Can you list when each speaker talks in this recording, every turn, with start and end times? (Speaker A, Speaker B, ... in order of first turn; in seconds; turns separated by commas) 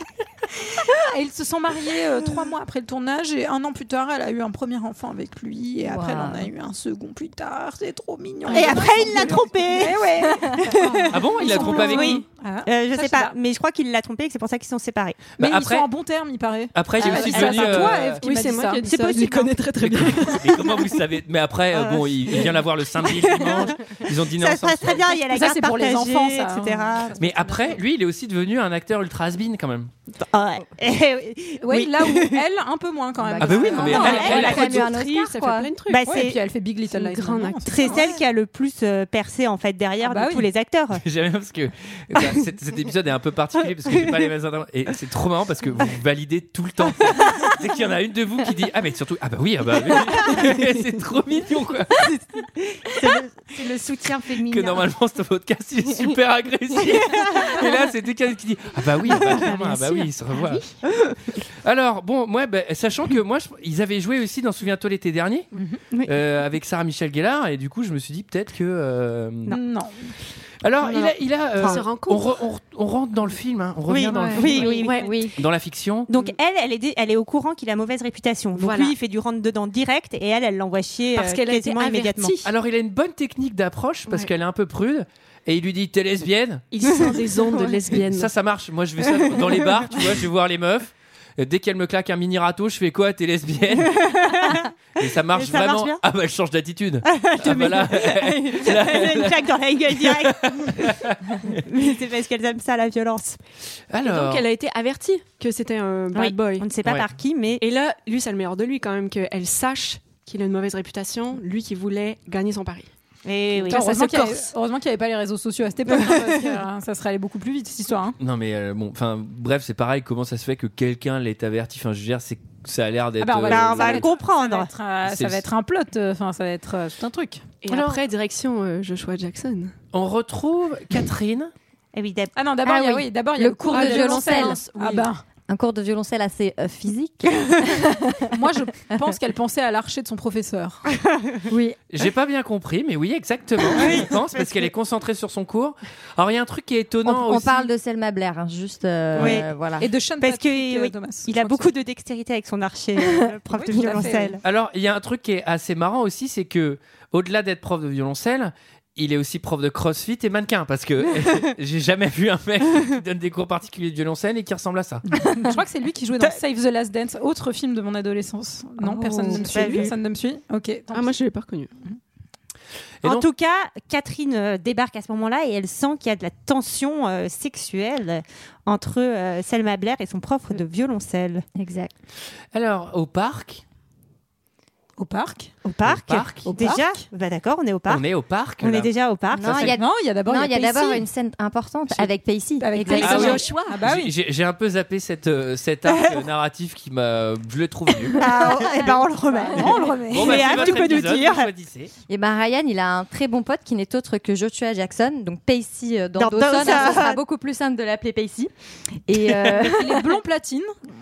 Speaker A: 1.1-13.3, Speaker B: 5.9-6.5, Speaker C: 8.4-8.8, Speaker D: 8.5-10.1, Speaker E: 11.1-12.2, Speaker D: 11.5-15.3, Speaker E: 15.4-15.9, Speaker A: 15.4-18.9, Speaker E: 16.7-18.2, Speaker D: 17.1-17.7, Speaker C: 17.1-20.6, Speaker D: 18.9-19.5, Speaker E: 19.8-25.0, Speaker D: 21.7-27.2, Speaker A: 25.3-27.7, Speaker E: 27.2-29.9, Speaker D: 30.2-32.4, Speaker A: 31.6-34.6, Speaker E: 33.4-34.8, Speaker D: 33.4-34.8, Speaker B: 33.6-35.7, Speaker C: 34.0-36.1, Speaker D: 35.9-36.4, Speaker A: 36.0-38.1, Speaker C: 36.9-38.0, Speaker D: 37.7-41.0, Speaker A: 40.0-40.5, Speaker E: 41.0-52.2, Speaker D: 52.9-54.9, Speaker E: 54.5-60.7, Speaker D: 57.0-57.6, Speaker D: 59.2-60.6, Speaker E: 61.6-65.5, Speaker E: 66.0-69.6, Speaker A: 69.5-70.1, Speaker E: 70.6-74.8, Speaker C: 70.9-72.3, Speaker D: 73.9-75.3, Speaker B: 74.3-75.3, Speaker C: 74.5-75.1, Speaker E: 75.4-76.1, Speaker D: 76.1-82.4, Speaker C: 78.6-78.9, Speaker C: 81.2-82.5, Speaker E: 82.4-86.6, Speaker C: 86.7-88.3, Speaker E: 88.1-94.0, Speaker D: 93.8-94.7, Speaker E: 95.0-101.6, Speaker D: 95.3-96.0, Speaker D: 97.0-103.4, Speaker E: 103.9-104.5, Speaker C: 104.0-106.7, Speaker D: 106.1-107.6, Speaker E: 106.8-107.1, Speaker C: 107.6-112.9, Speaker D: 113.2-114.5, Speaker C: 113.7-113.9, Speaker A: 113.7-118.2, Speaker E: 118.2-124.1, Speaker A: 123.2-127.6, Speaker D: 123.5-124.7, Speaker E: 125.0-125.5, Speaker C: 127.6-129.7, Speaker E: 129.9-131.5, Speaker D: 131.9-133.1, Speaker A: 132.4-135.2, Speaker B: 132.7-134.6, Speaker C: 133.7-135.1, Speaker D: 133.9-134.3, Speaker B: 135.4-138.3, Speaker A: 138.3-140.8, Speaker B: 141.5-141.8, Speaker E: 141.9-147.7, Speaker D: 143.7-144.7, Speaker B: 147.1-149.9, Speaker E: 149.2-149.4, Speaker D: 149.2-154.4, Speaker A: 149.8-151.7, Speaker A: 153.5-154.4, Speaker E: 154.4-165.0, Speaker A: 165.2-171.2, Speaker C: 168.8-169.9, Speaker D: 169.3-169.9, Speaker C: 170.9-171.7, Speaker D: 173.0-181.4, Speaker B: 181.6-181.9, Speaker E: 182.5-183.6, Speaker A: 185.0-185.6, Speaker D: 185.6-188.1, Speaker E: 185.8-186.5, Speaker A: 186.4-186.9, Speaker E: 187.9-188.9, Speaker D: 188.6-189.8, Speaker B: 189.3-193.5, Speaker E: 189.4-189.7, Speaker A: 189.6-191.1, Speaker A: 192.6-194.1, Speaker E: 192.9-198.6, Speaker D: 193.0-193.6, Speaker C: 193.2-193.6, Speaker D: 195.9-196.2, Speaker D: 198.1-201.5, Speaker B: 198.5-198.9, Speaker A: 199.5-201.0, Speaker E: 200.1-201.9, Speaker B: 202.1-208.5, Speaker D: 206.2-207.2, Speaker B: 209.1-210.2, Speaker A: 209.5-210.7